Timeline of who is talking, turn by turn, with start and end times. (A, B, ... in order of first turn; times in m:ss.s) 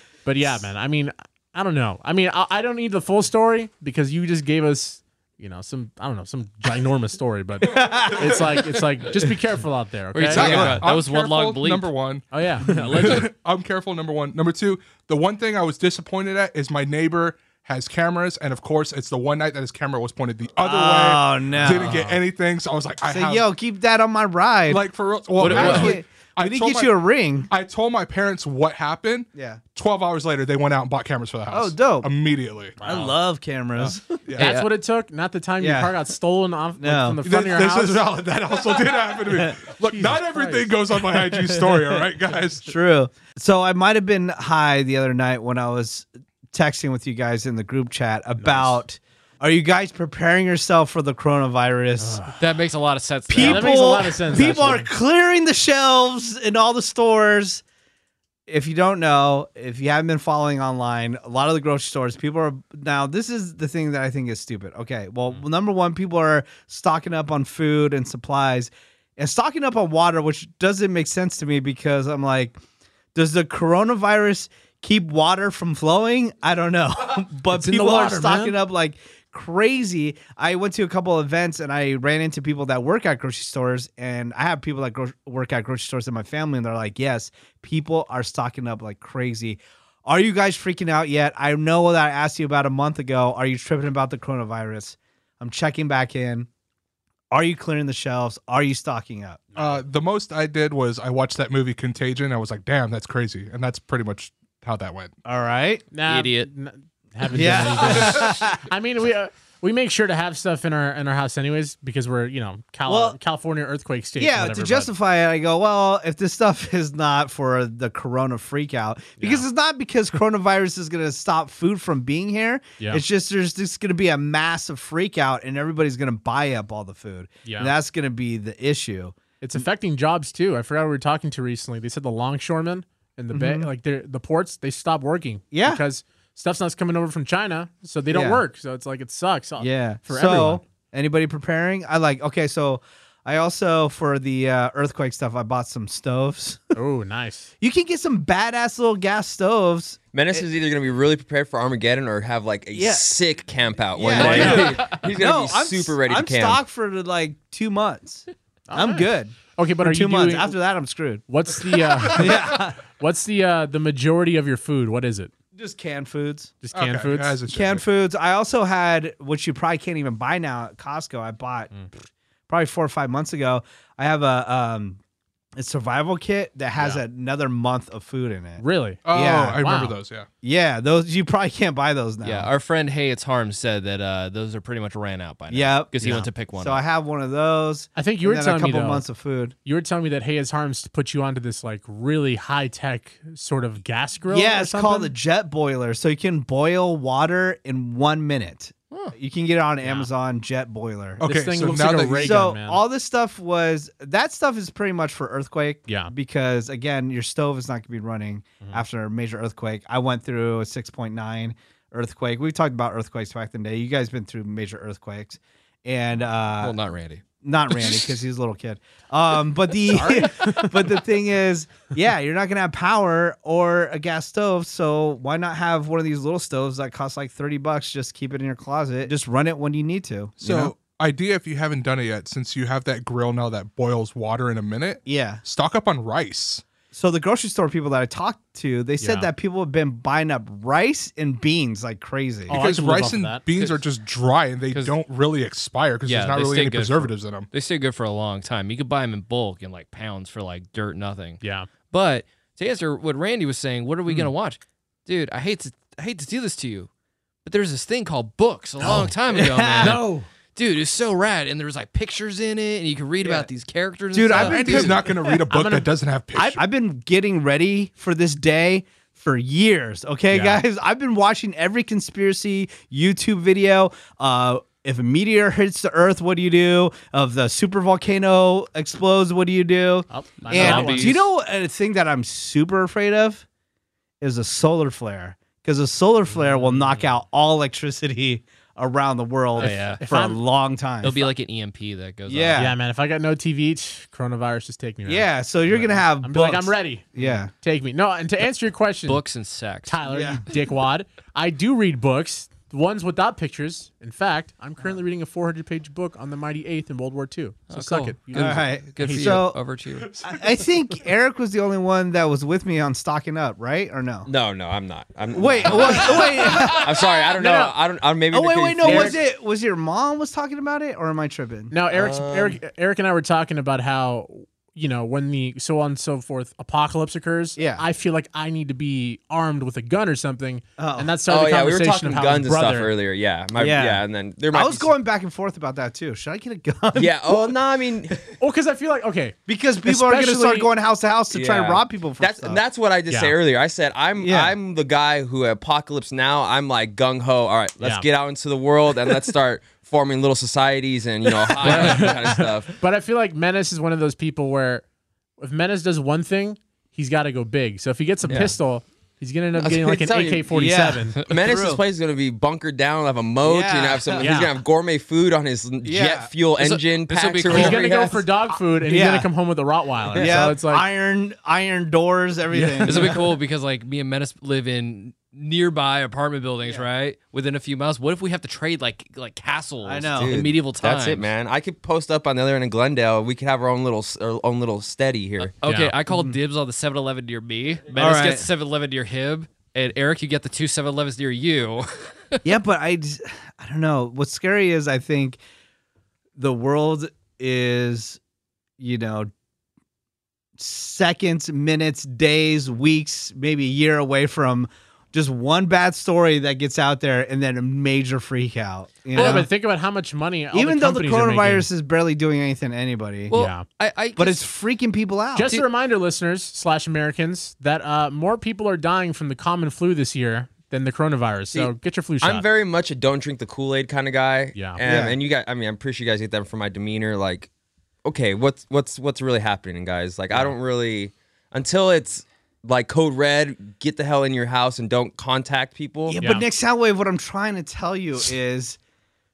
0:00.2-0:10.5 A
0:07.6-0:08.4 B
0:07.9-0:08.3 C
0:10.1-0:11.9 D
0:10.3-0:23.4 C
0:10.4-0:10.8 B
0:12.3-0:12.7 A
0:12.6-0:13.2 B
0:12.7-0:13.3 D
0:20.6-0:22.0 B
0:21.6-0:22.2 A
0:23.0-0:24.8 B
0:24.7-0:26.9 C
0:25.4-0:26.0 D
0:25.4-0:27.5 B
0:27.5-0:32.8 C
0:29.3-0:29.6 B
0:31.5-0:32.1 B
0:32.8-0:33.1 A
0:32.8-0:34.2 B
0:34.3-0:34.5 C
0:34.4-0:38.1 A
0:34.4-0:34.7 D
0:35.6-0:35.9 B
0:36.8-0:37.2 B
0:37.2-0:42.7 C
0:39.8-0:40.7 A
0:41.1-0:42.0 B
0:42.6-0:52.2 B
0:48.4-0:48.8 A
0:52.0-0:52.4 A
0:52.4-0:54.5 D
0:53.3-0:57.6 B
0:53.4-0:54.9 A
0:58.5-1:12.6 B
1:13.1-1:36.5 B
1:17.5-1:18.5 A
1:37.3-1:39.5 B
1:39.6-1:45.1 C
1:45.2-1:45.8 B
1:45.9-1:54.9 A
1:46.0-1:46.5 D
1:47.3-1:48.6 B
1:52.9-1:53.2 B
1:54.2-2:09.6 B
1:59.2-1:59.4 A
2:02.8-2:03.0 A
2:07.4-2:07.7 A
2:09.4-2:20.6 A
2:13.3-2:13.7 B
2:15.5-2:15.8 B
2:18.1-2:18.4 B
2:19.6-2:26.8 B
2:26.7-2:27.5 A
2:27.6-2:30.4 B
2:30.1-2:36.6 E
2:32.7-2:33.0 B
2:33.9-2:41.2 B
2:34.1-2:35.0 D
2:38.7-2:40.6 A
2:41.3-2:45.3 A
2:42.1-2:42.8 B
2:45.5-2:46.5 B
2:46.6-2:47.4 A
2:46.7-2:47.8 C
2:47.5-2:51.7 B
2:52.5-2:55.0 B
2:55.6-2:59.6 B
2:56.8-2:57.0 D
2:58.6-2:59.0 A
2:59.0-3:00.3 C
2:59.6-2:59.9 A
3:00.4-3:02.5 B
3:02.2-3:06.8 D
3:05.5-3:09.5 B
3:08.0-3:09.0 A
3:09.6-3:15.1 A
3:14.3-3:21.2 B
3:19.8-3:20.1 A
3:21.2-3:22.5 C
3:21.2-3:22.8 A
3:22.2-3:36.8 B
3:25.9-3:26.1 A
3:36.6-3:37.2 D
3:37.4-3:50.7 B
3:39.9-3:40.5 A
3:40.2-3:40.7 D
3:50.4-3:56.6 C
3:55.0-3:55.4 B
3:56.9-4:02.6 B
3:59.0-3:59.3 A
4:02.5-4:07.5 C
4:02.5-4:03.4 A
4:03.5-4:03.8 D
4:06.0-4:16.9 D
4:11.4-4:11.7 A
4:17.4-4:20.0 D
4:18.8-4:19.1 A
4:18.8-4:20.0 B
4:19.8-4:20.3 A
4:20.5-4:25.0 D
4:23.2-4:23.5 B
4:24.1-4:25.3 B
4:24.3-4:26.6 C
4:25.5-4:25.9 A
4:26.3-4:43.4 B
4:30.3-4:30.6 A
4:40.1-4:41.2 A
4:40.5-4:41.2 D
4:44.2-4:51.2 B
4:46.3-4:47.1 A
4:49.6-4:50.0 D
4:49.6-4:50.4 A
4:51.0-4:52.6 D
4:52.3-4:52.8 B
4:52.6-4:59.2 A
4:55.0-4:57.5 B
4:59.0-4:59.9 D
4:59.8-5:09.4 A
5:00.0-5:00.4 B
5:07.7-5:10.3 D
5:08.3-5:09.6 B
5:10.2-5:14.3 B
5:14.2-5:19.2 E
5:15.3-5:17.1 B
5:17.3-5:17.7 A
5:18.3-5:21.7 B
5:18.8-5:19.2 A
5:21.7-5:32.9 A
5:21.9-5:22.6 E
5:27.6-5:27.8 B
5:30.8-5:31.1 B
5:31.3-5:34.9 E
5:33.6-5:37.6 B
5:36.9-5:38.2 E
5:38.4-5:40.7 A
5:39.5-5:42.6 B
5:41.3-5:52.7 E
5:43.1-5:43.3 A
5:44.2-5:44.5 B
5:47.8-5:48.0 A
5:51.6-5:52.1 D
5:51.6-5:54.8 A
5:55.4-6:01.2 A
5:58.2-5:58.5 E
5:59.6-6:00.5 E
6:00.5-6:01.8 B
6:01.2-6:08.2 E
6:03.4-6:04.3 B
6:04.2-6:04.5 A
6:05.8-6:06.3 B
6:06.6-6:07.9 D
6:07.5-6:10.8 A
6:08.8-6:09.3 B
6:10.1-6:13.2 B
6:12.5-6:13.2 A
6:12.8-6:21.3 D
6:19.8-6:20.4 B
6:20.2-6:25.5 E
6:25.4-6:32.4 D
6:25.6-6:25.9 A
6:26.1-6:26.4 B
6:27.9-6:28.5 B
6:32.4-6:35.4 B
6:36.4-6:38.2 B
6:38.8-6:39.3 B
6:40.6-6:49.5 B
6:49.1-6:51.6 A
6:49.1-6:49.5 D
6:50.5-6:53.3 B
6:53.3-6:54.4 D
6:53.3-6:53.6 A
6:54.2-6:55.5 B
6:55.3-7:02.5 A
7:01.5-7:07.5 E
7:04.5-7:04.8 A
7:04.8-7:05.2 B
7:08.0-7:16.2 E
7:16.1-7:18.8 B
7:16.2-7:16.4 A